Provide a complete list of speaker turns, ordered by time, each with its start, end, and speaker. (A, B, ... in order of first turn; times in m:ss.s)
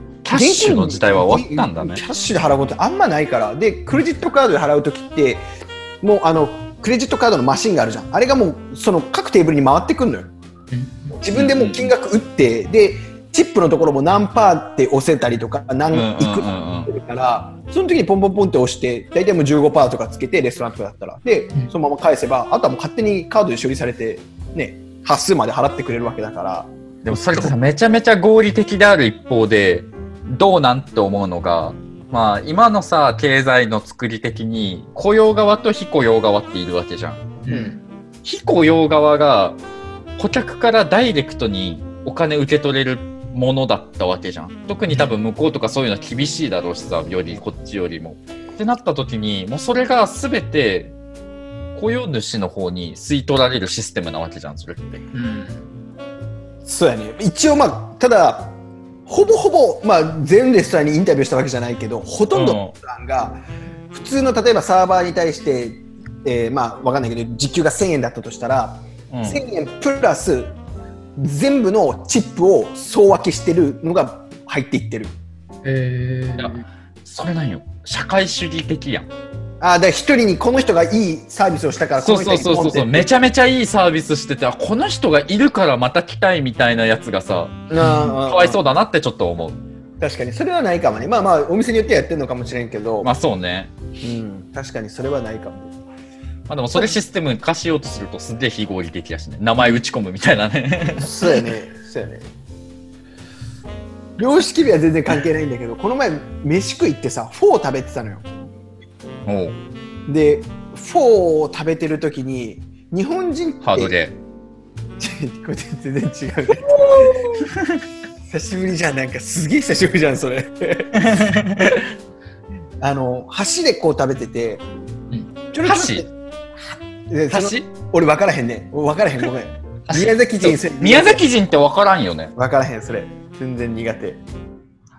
0:00.2-0:02.0 A
0:00.3-0:05.4 B
0:06.0-0:10.3 B
0:10.7-0:11.2 C
0:11.2-0:27.6 B
0:11.3-0:11.9 A
0:15.9-0:16.9 A
0:27.0-0:37.4 A
0:37.4-0:37.8 C
0:37.5-0:37.7 B
0:38.2-0:39.6 A
0:40.2-0:50.9 A
0:51.8-0:55.1 A
0:55.1-0:55.6 C
0:56.6-0:58.6 B
0:59.1-1:03.4 B
1:02.3-1:02.7 A
1:03.9-1:10.6 B
1:09.1-1:09.4 A
1:11.2-1:15.2 B
1:15.6-1:16.7 C
1:16.4-1:19.1 A
1:19.6-1:23.1 B
1:22.0-1:29.6 A
1:27.7-1:28.6 B
1:27.8-1:28.2 C
1:30.0-1:33.1 B
1:33.0-1:33.7 A
1:34.0-1:35.7 B
1:36.5-1:41.1 A
1:41.0-1:42.3 B
1:44.2-1:48.3 B
1:49.2-1:49.6 A
1:50.1-1:53.9 B
1:53.6-1:54.2 A
1:55.0-1:57.3 B
1:58.3-2:01.0 B
2:01.0-2:01.8 A
2:02.8-2:04.6 B
2:05.5-2:06.1 B
2:05.6-2:06.0 A
2:06.6-2:11.2 B
2:07.3-2:07.6 A
2:09.9-2:10.1 C
2:10.4-2:12.4 A
2:12.4-2:14.2 B